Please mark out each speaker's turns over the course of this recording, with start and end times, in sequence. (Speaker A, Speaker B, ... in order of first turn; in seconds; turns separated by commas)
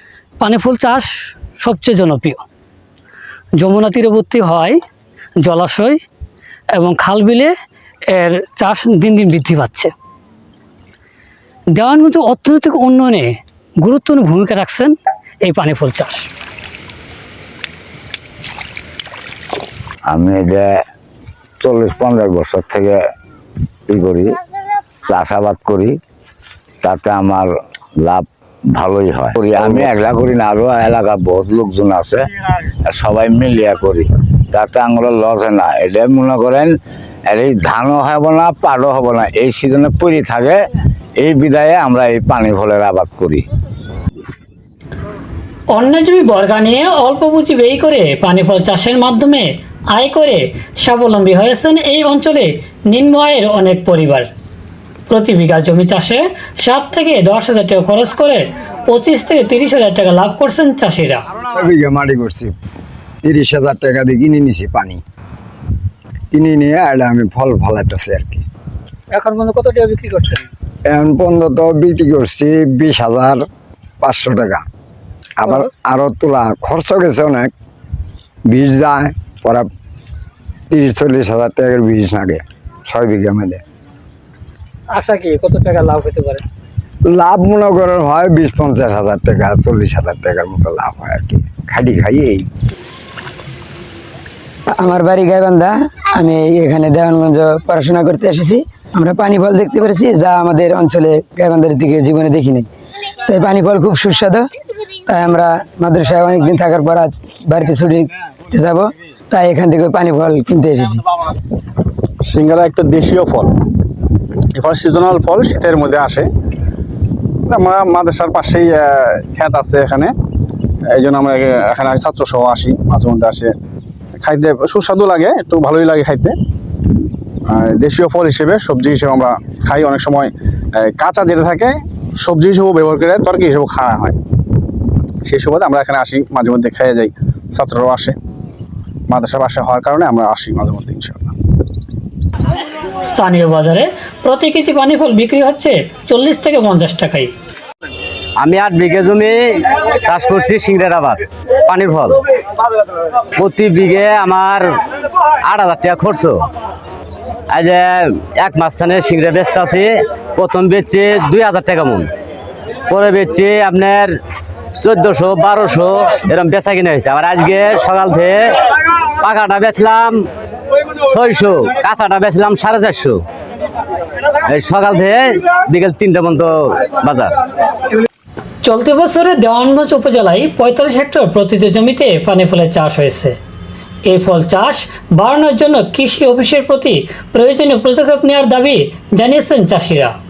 Speaker A: 0.4-2.4, Speaker A: 3.6-4.8, Speaker A: 5.4-6.0, Speaker A: 6.8-7.5, Speaker A: 8.1-9.9, Speaker A: 11.8-16.2, Speaker B: 20.1-20.7, Speaker B: 21.6-23.0, Speaker B: 23.9-24.3, Speaker B: 25.0-25.9, Speaker B: 26.8-32.2, Speaker B: 32.9-36.7, Speaker B: 37.3-40.6, Speaker B: 41.2-43.4, Speaker A: 45.7-54.3, Speaker A: 55.1-61.2, Speaker C: 61.5-62.5, Speaker C: 63.2-65.0, Speaker C: 66.3-68.4, Speaker A: 69.1-70.5, Speaker C: 70.9-73.4, Speaker C: 74.0-74.7, Speaker C: 75.4-77.5, Speaker A: 75.5-75.7, Speaker C: 78.5-79.7, Speaker C: 80.7-83.6, Speaker A: 85.0-86.4, Speaker C: 87.1-92.5, Speaker D: 94.7-102.7, Speaker D: 103.3-104.5, Speaker D: 105.1-111.0, Speaker E: 112.2-113.7, Speaker E: 114.5-116.3, Speaker E: 117.5-120.1, Speaker E: 120.9-123.5, Speaker E: 124.2-126.4, Speaker E: 127.5-134.2, Speaker E: 135.2-138.2, Speaker E: 139.1-141.3, Speaker A: 143.1-147.3, Speaker F: 148.4-152.2, Speaker F: 153.4-154.6, Speaker F: 155.4-156.5, Speaker F: 157.5-162.1, Speaker F: 162.9-164.1, Speaker F: 164.8-168.5, Speaker F: 169.2-170.2, Speaker F: 171.0-173.2, Speaker F: 174.5-177.3, Speaker A: 178.6-183.4, Speaker A: 184.1-190.1